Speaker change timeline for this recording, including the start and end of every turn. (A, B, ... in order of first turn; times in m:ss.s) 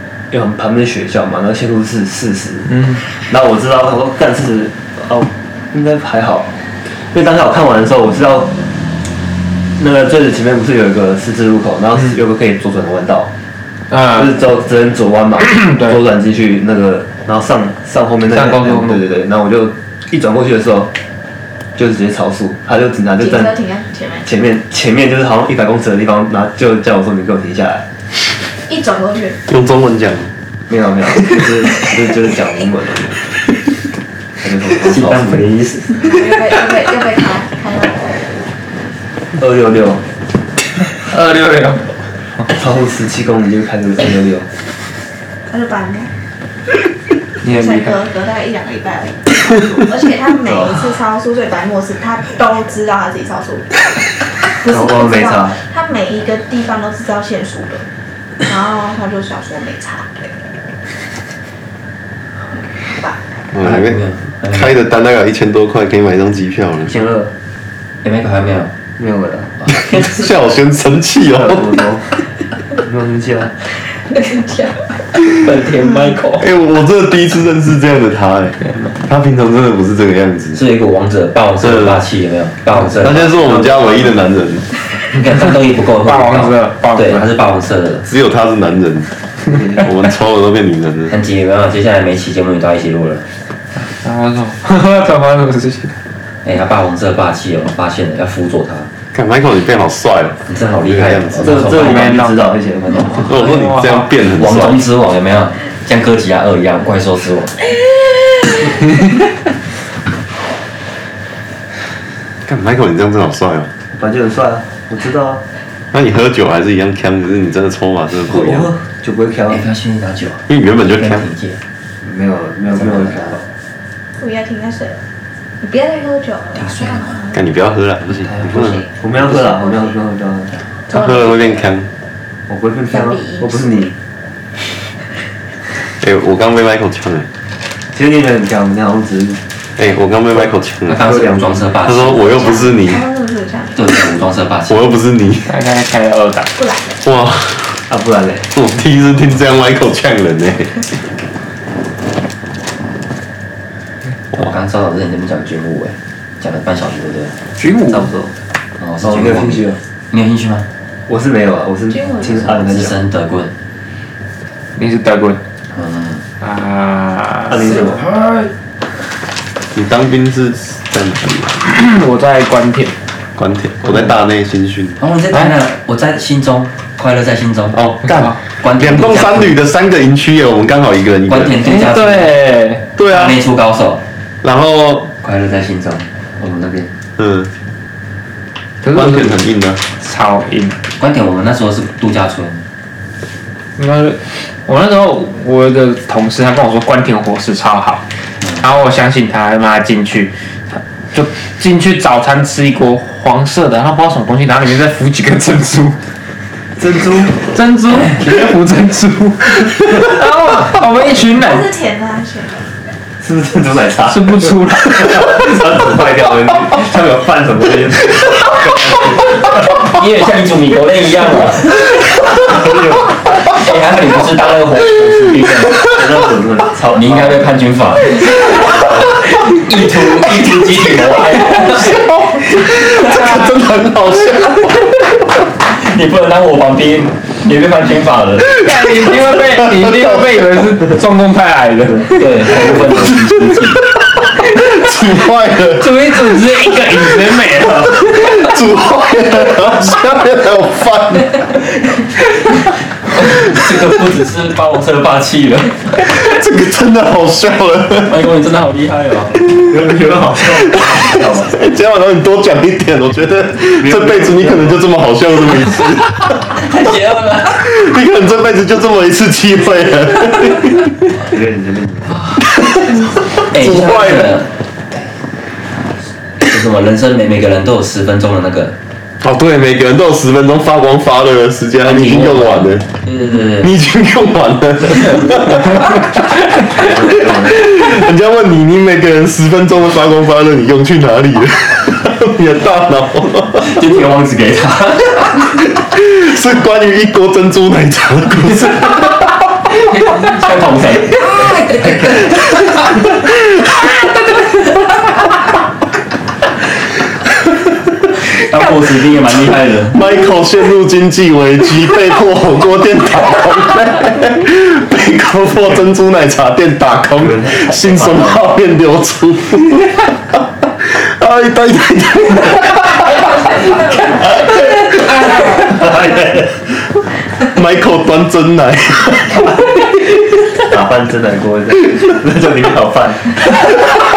0:00.3-0:08.6 A
0:09.8-0:13.3 A
0:13.9-0:14.2 B
0:14.1-0:20.9 A
0:18.3-0:19.0 B
0:21.8-0:23.6 A
0:23.2-0:24.3 C
0:24.2-0:27.8 A
0:28.7-0:29.4 C
0:29.5-0:30.3 D
0:30.7-0:33.3 A
0:34.4-0:35.4 A
0:34.8-0:36.0 E
0:36.0-0:38.2 C
0:39.4-0:40.0 A
0:41.1-0:41.9 B
0:42.4-0:44.5 A
0:45.5-0:46.1 C
0:47.4-0:47.9 B
0:47.4-0:53.8 C
0:54.6-0:57.8 C
0:54.6-0:55.6 A
0:58.4-1:00.3 C
1:02.8-1:03.2 C
1:03.5-1:06.9 D
1:03.6-1:04.8 E
1:06.9-1:07.3 A
1:08.0-1:08.7 E
1:09.0-1:09.5 A
1:09.8-1:11.8 D
1:11.3-1:12.1 A
1:12.8-1:13.6 A
1:14.1-1:14.9 C
1:15.2-1:16.5 E
1:16.4-1:20.6 D
1:20.5-1:23.7 E
1:21.6-1:22.0 D
1:22.8-1:24.7 D
1:23.4-1:24.1 A
1:25.1-1:28.1 E
1:26.0-1:27.2 B
1:28.1-1:29.1 D
1:29.5-1:29.9 A
1:29.8-1:31.1 D
1:31.1-1:33.3 E
1:33.8-1:36.0 B
1:36.4-1:38.9 E
1:39.1-1:41.6 D
1:40.5-1:42.1 E
1:41.4-1:43.4 A
1:41.7-1:42.4 B
1:43.2-1:44.8 D
1:43.3-1:44.1 B
1:44.3-1:47.6 E
1:52.5-1:53.7 D
1:53.9-1:55.4 A
1:55.9-1:58.7 D
1:58.3-1:59.6 A
1:59.5-2:01.6 E
2:00.5-2:01.2 D
2:02.0-2:03.4 A
2:02.7-2:03.4 E
2:04.2-2:05.0 C
2:05.6-2:07.4 C
2:06.6-2:07.2 E
2:07.3-2:08.8 D
2:08.5-2:10.0 C
2:08.9-2:10.5 A
2:10.9-2:11.5 C
2:10.9-2:11.9 D
2:12.5-2:13.9 A
2:12.9-2:13.9 C
2:16.0-2:17.3 D
2:17.9-2:19.4 A
2:19.8-2:21.0 D
2:20.9-2:22.6 E
2:21.0-2:21.6 A
2:21.8-2:23.0 D
2:22.3-2:24.0 C
2:23.8-2:24.9 E
2:24.7-2:25.5 D
2:25.5-2:26.5 B
2:26.6-2:27.0 C
2:27.0-2:27.8 D
2:27.9-2:28.5 A
2:28.5-2:30.8 D
2:34.3-2:37.4 E
2:37.6-2:38.1 B
2:37.9-2:38.3 A
2:38.8-2:40.7 E
2:39.0-2:39.8 A
2:41.1-2:43.0 A
2:41.9-2:42.3 C
2:42.3-2:43.5 E
2:44.8-2:45.4 B
2:45.7-2:46.2 E
2:46.4-2:47.7 B
2:47.5-2:48.1 A
2:49.7-2:51.6 D
2:51.6-2:52.9 B
2:53.4-2:55.0 D
2:55.0-2:57.8 E
2:57.7-3:01.6 D
2:58.1-2:58.3 B
2:58.6-2:59.6 E
3:01.3-3:02.3 E
3:01.6-3:02.8 B
3:03.0-3:03.4 D
3:03.0-3:04.0 E
3:04.4-3:05.1 D
3:05.2-3:06.9 E
3:07.2-3:07.5 D
3:08.8-3:09.4 B
3:08.9-3:09.8 D
3:10.0-3:10.8 B
3:11.0-3:12.6 E
3:13.8-3:18.0 B
3:18.6-3:26.0 B
3:26.8-3:27.4 A
3:27.4-3:31.7 B
3:31.3-3:32.7 C
3:33.2-3:39.4 A
3:34.1-3:35.6 B
3:39.7-3:42.0 E
3:42.5-3:43.1 A
3:43.5-3:45.9 E
3:45.9-3:47.4 A
3:46.9-3:52.0 E
3:51.9-3:55.1 D
3:55.7-3:58.6 E
3:58.5-4:02.5 B
3:59.3-4:00.2 D
4:02.2-4:03.8 E
4:03.1-4:03.6 D
4:04.4-4:06.1 D
4:05.8-4:08.4 B
4:07.9-4:11.5 D
4:13.1-4:16.0 E
4:16.0-4:18.2 D
4:18.0-4:19.4 E
4:19.6-4:21.6 A
4:21.4-4:26.5 D
4:23.8-4:24.8 A
4:26.5-4:27.6 E
4:27.6-4:30.9 D
4:31.2-4:32.2 A
4:33.5-4:34.5 E
4:33.5-4:34.4 D
4:36.4-4:38.8 E
4:39.2-4:42.9 D
4:41.8-4:43.7 E
4:43.6-4:46.1 D
4:46.7-4:47.8 A
4:47.3-4:53.7 D
4:53.6-4:55.4 E
4:55.8-4:59.2 D
4:59.7-5:02.3 E
5:08.3-5:10.0 E
5:09.9-5:23.3 D
5:17.2-5:18.4 A
5:24.1-5:24.9 D
5:25.3-5:26.6 A
5:27.4-5:29.5 D
5:30.6-5:33.4 A